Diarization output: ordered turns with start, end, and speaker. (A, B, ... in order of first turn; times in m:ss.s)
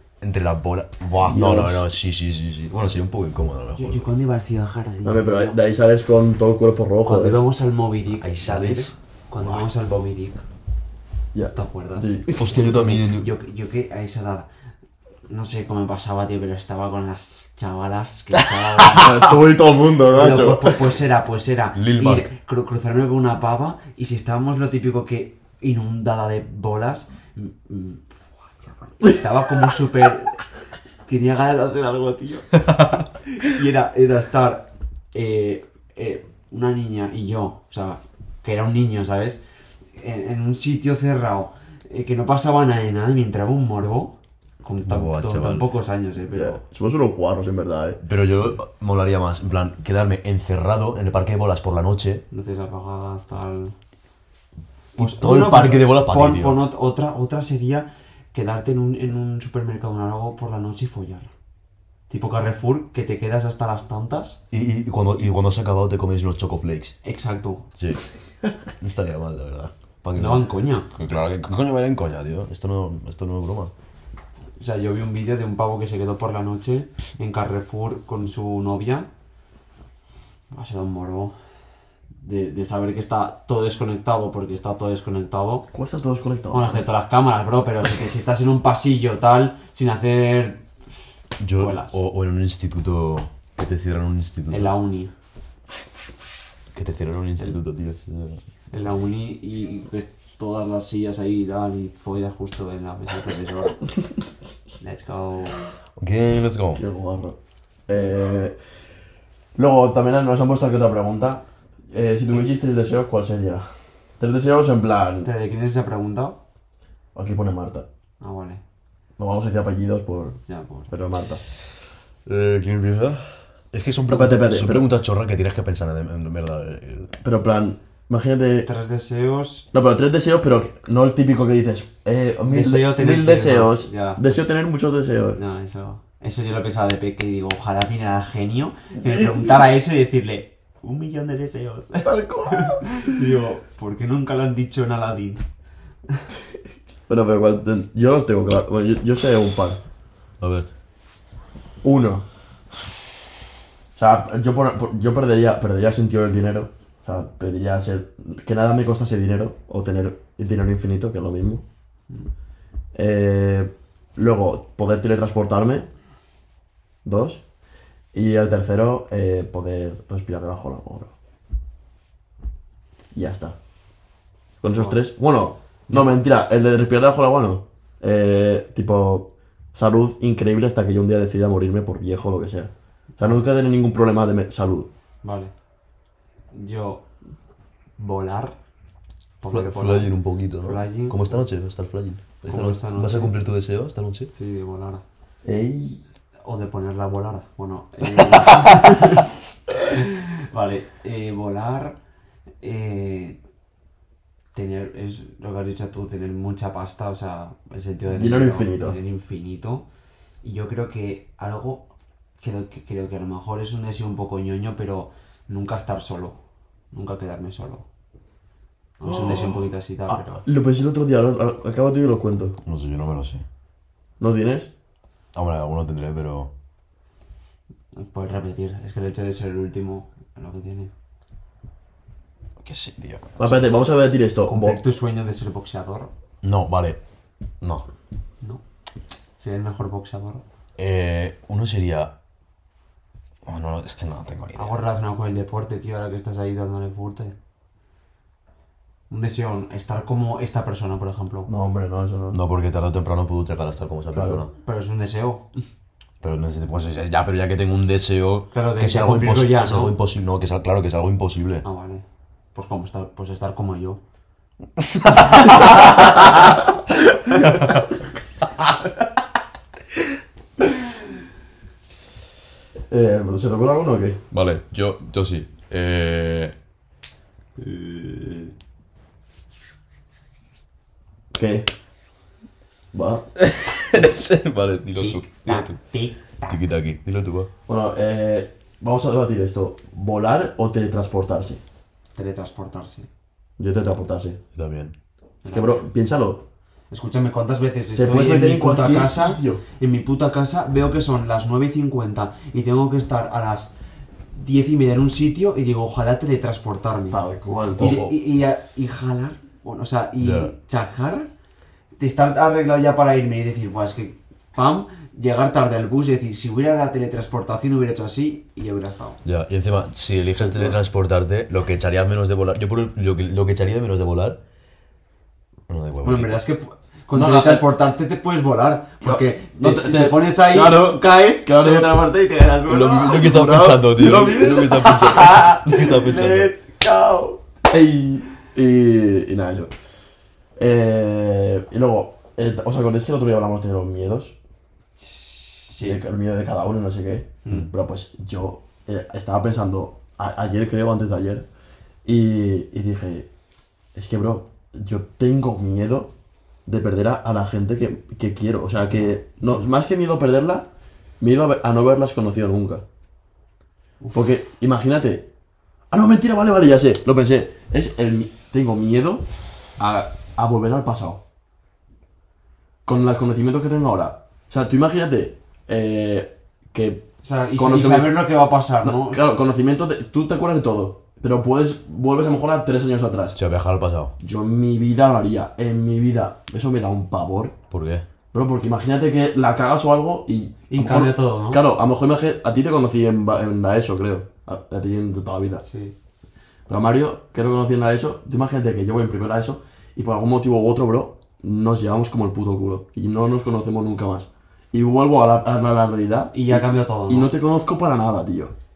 0:00.2-0:04.1 A
0:01.2-0:01.9 B
0:03.8-0:05.6 C
0:05.0-0:07.4 B
0:07.0-0:10.4 C
0:08.2-0:09.7 A
0:11.3-0:13.0 B
0:11.5-0:14.5 C
0:12.3-0:13.3 A
0:15.3-0:19.2 C
0:18.9-0:20.8 B
0:20.1-0:30.4 C
0:21.8-0:22.3 A
0:31.0-0:32.6 C
0:33.4-0:39.4 C
0:40.0-0:46.6 C
0:44.8-0:45.7 A
0:46.3-0:48.0 B
0:48.0-0:52.2 A
0:52.3-0:53.8 C
0:55.0-0:56.6 A
0:55.0-1:01.3 C
1:02.1-1:04.4 C
1:04.5-1:07.0 A
1:07.0-1:07.7 C
1:07.8-1:08.0 A
1:08.8-1:13.7 A
1:10.2-1:10.9 C
1:14.6-1:19.1 C
1:20.5-1:21.4 C
1:22.2-1:25.7 C
1:25.7-1:26.8 B
1:26.5-1:30.7 C
1:31.4-1:34.7 A
1:31.6-1:32.0 C
1:34.5-1:35.1 C
1:36.7-1:38.4 A
1:38.7-1:43.8 C
1:44.8-1:45.7 C
1:46.0-1:46.8 A
1:46.8-1:48.6 B
1:49.6-1:53.7 B
1:54.2-1:55.3 B
1:55.2-1:56.4 C
1:57.2-1:57.9 B
1:58.2-1:58.6 C
1:59.2-2:00.4 B
2:00.5-2:00.9 C
2:00.9-2:01.4 B
2:02.3-2:07.1 A
2:04.1-2:04.9 B
2:07.2-2:08.7 B
2:08.6-2:09.7 C
2:09.7-2:15.4 B
2:12.5-2:14.2 C
2:15.3-2:25.4 C
2:22.0-2:22.8 B
2:27.1-2:29.8 B
2:30.4-2:30.7 A
2:31.8-2:32.3 B
2:34.0-2:41.6 B
2:42.9-2:45.9 B
2:47.0-2:47.4 B
2:48.1-2:51.1 B
2:53.1-2:53.6 B
2:54.6-3:04.9 B
2:54.7-2:55.0 C
3:05.2-3:05.5 C
3:06.5-3:07.1 C
3:08.0-3:08.6 C
3:09.4-3:10.1 C
3:09.5-3:14.3 A
3:10.6-3:11.4 C
3:12.5-3:13.4 C
3:14.3-3:15.0 C
3:15.4-3:16.0 A
3:16.4-3:19.3 C
3:18.3-3:18.7 A
3:19.9-3:22.0 C
3:22.6-3:23.4 C
3:24.5-3:29.9 C
3:28.1-3:29.0 B
3:30.4-3:36.4 C
3:36.9-3:37.9 C
3:39.0-3:40.4 C
3:39.1-3:39.6 B
3:40.4-3:42.6 B
3:42.6-3:43.4 A
3:44.2-3:44.7 B
3:45.3-3:46.5 A
3:47.9-3:50.9 C
3:52.6-3:53.5 A
3:53.4-3:54.8 B
3:54.4-3:56.1 C
3:56.4-3:57.0 A
3:57.6-3:57.9 A
3:59.4-4:00.4 C
4:00.8-4:02.1 A
4:03.4-4:04.8 A
4:04.6-4:07.4 C
4:09.1-4:11.5 C
4:11.5-4:12.4 B
4:12.3-4:14.5 A
4:14.1-4:14.4 B
4:14.6-4:15.5 C
4:16.2-4:21.6 A
4:18.5-4:20.0 C
4:21.6-4:24.0 C
4:24.8-4:26.3 A
4:32.9-4:34.2 B
4:34.3-4:36.6 A
4:37.6-4:38.3 A
4:41.3-4:41.7 B
4:42.9-4:43.3 B
4:43.4-4:45.8 A
4:45.0-4:46.6 C
4:46.5-4:47.5 A
4:47.7-4:51.6 B
4:52.2-4:53.1 C
4:53.6-4:54.4 B
4:54.6-4:54.9 A
4:55.4-4:55.9 C
4:55.5-4:56.4 B
4:56.9-5:03.7 C
4:58.0-4:59.6 B
5:04.3-5:07.2 C
5:07.1-5:08.2 B
5:07.8-5:11.3 C
5:10.2-5:10.5 A
5:12.0-5:19.2 C
5:19.2-5:24.4 A
5:20.4-5:20.8 C
5:25.7-5:26.4 A
5:26.0-5:33.3 C
5:27.1-5:27.7 B
5:29.0-5:32.3 B
5:32.7-5:36.5 A
5:33.1-5:34.7 B
5:34.0-5:37.4 C
5:37.7-5:39.7 B
5:40.6-5:44.4 B
5:45.0-5:46.0 C
5:45.8-5:51.5 B
5:52.0-5:53.3 B
5:54.0-5:56.1 B
5:56.7-6:00.7 B
6:01.2-6:02.8 B
6:04.0-6:04.3 C
6:04.1-6:05.3 B
6:05.9-6:09.2 B
6:09.8-6:11.2 B
6:12.9-6:23.4 B
6:17.2-6:19.3 C
6:23.4-6:24.1 A
6:24.2-6:27.6 B
6:27.7-6:28.1 A
6:28.3-6:35.6 B
6:30.7-6:31.6 C
6:35.6-6:36.0 C
6:36.7-6:48.5 B
6:46.3-6:47.3 C